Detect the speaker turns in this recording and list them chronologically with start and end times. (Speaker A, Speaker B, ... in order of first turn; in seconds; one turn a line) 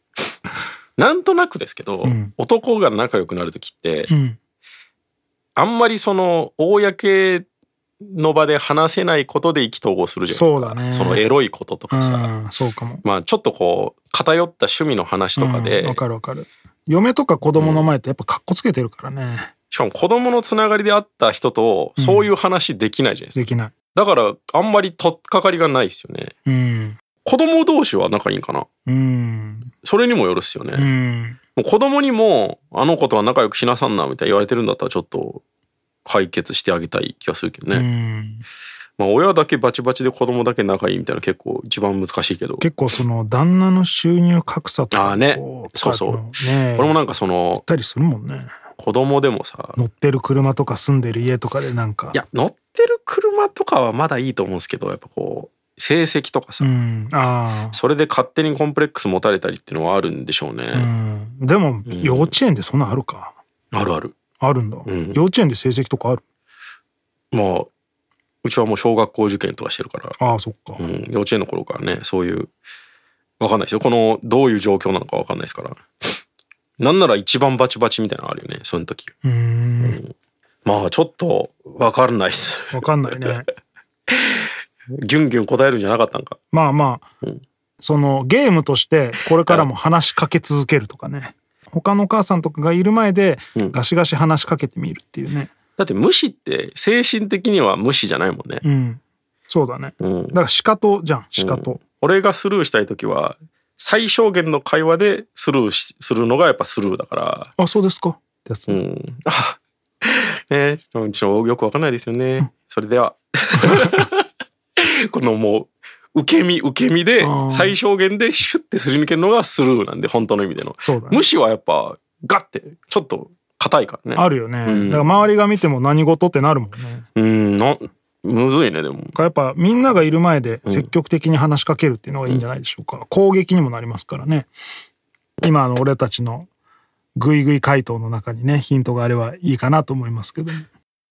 Speaker A: 1.0-4.1
Speaker B: 2.0-2.3
Speaker B: 4.1-4.4
Speaker A: 5.5-7.5
Speaker A: 8.0-12.3
Speaker B: 10.3-11.2
Speaker B: 11.9-13.0
Speaker A: 13.0-16.0
Speaker B: 15.3-19.5
Speaker A: 17.6-17.9
Speaker A: 19.7-26.3
Speaker B: 22.0-22.3
Speaker B: 23.3-23.7
Speaker B: 26.4-27.0
Speaker A: 27.2-28.7
Speaker B: 28.9-29.7
Speaker A: 29.8-30.9
Speaker B: 30.7-31.4
Speaker A: 31.6-35.4
Speaker A: 36.0-37.8
Speaker B: 37.7-38.4
Speaker A: 39.0-42.6
Speaker B: 42.6-46.9
Speaker A: 44.9-47.6
Speaker B: 47.6-48.5
Speaker A: 48.8-49.8
Speaker B: 49.8-52.2
Speaker A: 52.1-56.7
Speaker B: 56.6-57.8
Speaker A: 57.7-60.9
Speaker B: 60.7-63.3
Speaker A: 61.9-62.3
Speaker A: 63.7-64.2
Speaker B: 64.4-66.2
Speaker A: 64.8-65.2
Speaker A: 67.3-67.7
Speaker A: 68.4-70.2
Speaker B: 70.2-70.8
Speaker A: 70.8-72.5
Speaker A: 73.4-76.2
Speaker A: 76.8-79.1
Speaker B: 79.2-80.0
Speaker A: 79.8-80.1
Speaker A: 80.6-83.4
Speaker B: 82.7-83.5
Speaker A: 84.1-86.4
Speaker B: 86.5-87.0
Speaker B: 87.8-95.5
Speaker A: 95.8-98.6
Speaker B: 98.6-101.8
Speaker A: 100.0-100.4
Speaker A: 101.4-107.5
Speaker B: 107.6-108.8
Speaker A: 108.7-114.2
Speaker A: 114.8-125.1
Speaker B: 117.2-117.8
Speaker B: 120.8-121.2
Speaker B: 124.2-127.1
Speaker A: 127.2-129.1
Speaker B: 129.1-134.5
Speaker B: 135.4-136.5
Speaker B: 137.2-140.7